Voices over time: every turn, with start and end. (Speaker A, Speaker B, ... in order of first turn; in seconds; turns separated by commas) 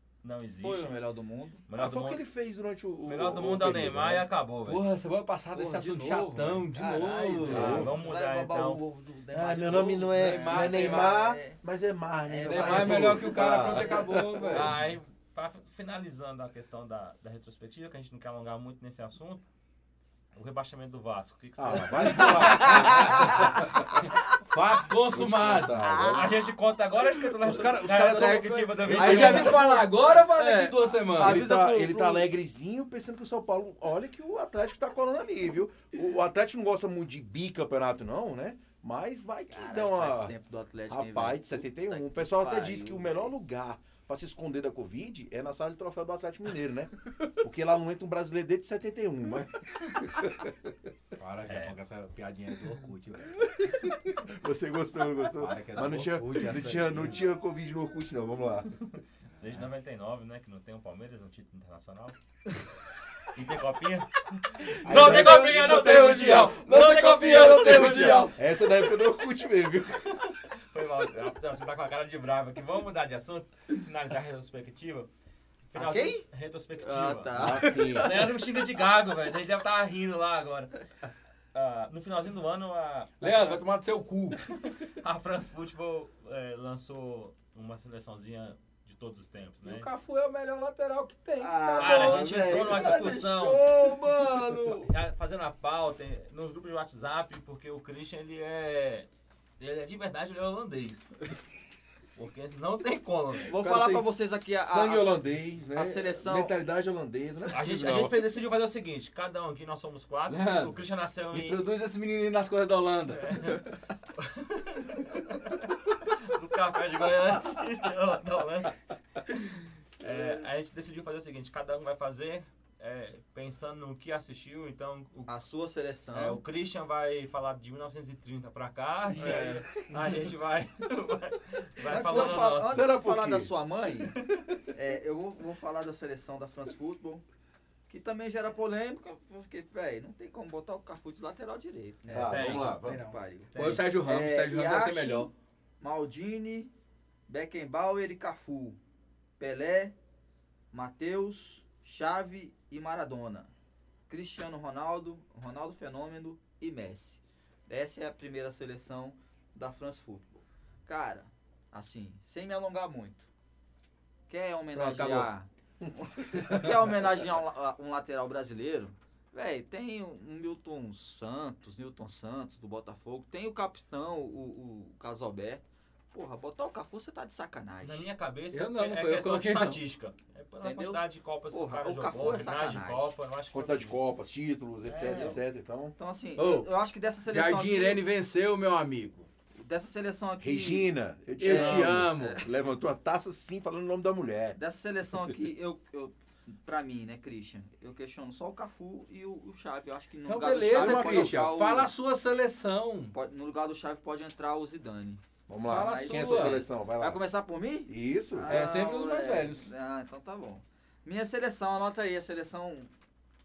Speaker A: 0.2-1.0, Speaker B: 0.6-1.6, Speaker A: 1.7-2.2, Speaker C: 1.7-4.3, Speaker A: 3.0-4.8, Speaker D: 4.7-7.9, Speaker B: 5.5-11.6, Speaker A: 7.5-8.8, Speaker C: 7.5-7.9, Speaker C: 9.3-14.5, Speaker D: 10.1-11.1, Speaker B: 12.2-14.7, Speaker D: 12.4-14.7, Speaker A: 14.4-19.4, Speaker A: 20.3-22.8, Speaker C: 21.6-24.1, Speaker D: 22.1-23.5, Speaker B: 22.6-23.5, Speaker D: 24.4-26.1, Speaker C: 25.1-26.4, Speaker B: 25.9-26.2, Speaker A: 26.1-29.8, Speaker C: 27.4-29.7, Speaker D: 28.9-31.5, Speaker B: 28.9-32.3, Speaker C: 31.2-40.3, Speaker B: 39.5-43.3, Speaker C: 40.9-50.7, Speaker D: 51.2-53.5, Speaker A: 51.4-51.8, Speaker C: 53.6-58.8, Speaker D: 55.4-57.2, Speaker A: 58.8-62.2, Speaker A: 63.2-68.3, Speaker C: 64.8-66.6, Speaker D: 64.9-65.2, Speaker B: 64.9-68.4, Speaker C: 67.4-70.3, Speaker A: 70.1-75.1, Speaker A: 75.7-80.8, Speaker B: 75.7-76.2, Speaker B: 76.8-78.2, Speaker C: 77.3-78.3, Speaker A: 81.5-83.6, Speaker D: 83.2-84.5, Speaker A: 84.8-89.9, Speaker D: 89.6-92.9, Speaker B: 91.4-94.8, Speaker A: 91.8-93.7, Speaker D: 93.9-94.9, Speaker A: 94.8-99.1, Speaker A: 99.6-101.2, Speaker A: 102.2-103.5, Speaker B: 103.5-105.2, Speaker C: 103.5-108.2, Speaker B: 105.7-106.5, Speaker A: 107.5-111.7, Speaker D: 110.3-110.8, Speaker D: 111.3-113.7, Speaker A: 113.1-118.8, Speaker A: 120.0-125.3, Speaker B: 125.3-126.4, Speaker A: 126.1-132.8, Speaker C: 129.2-129.8, Speaker B: 129.2-129.6, Speaker B: 131.8-134.2, Speaker C: 132.6-133.5, Speaker B: 134.7-137.2, Speaker B: 137.9-146.7, Speaker C: 142.1-143.1, Speaker A: 142.1-142.8, Speaker D: 142.3-145.3, Speaker A: 143.5-143.9, Speaker B: 147.3-148.8, Speaker B: 149.4-149.9, Speaker B: 150.7-153.5, Speaker B: 154.1-163.3, Speaker B: 164.3-178.0, Speaker D: 164.7-165.3, Speaker D: 166.4-166.7, Speaker A: 177.8-184.1, Speaker D: 178.5-179.8, Speaker B: 180.6-183.1, Speaker C: 183.5-185.9, Speaker A: 184.8-185.4, Speaker B: 185.0-185.4, Speaker B: 186.0-188.0, Speaker D: 186.4-186.7, Speaker D: 187.3-189.3, Speaker B: 189.6-192.5, Speaker C: 190.4-194.6, Speaker D: 191.4-192.4, Speaker B: 194.6-201.9, Speaker D: 200.2-203.2, Speaker C: 200.7-201.5, Speaker B: 203.1-212.9, Speaker C: 205.5-207.2, Speaker D: 205.6-206.6, Speaker C: 207.9-208.6, Speaker D: 208.4-209.7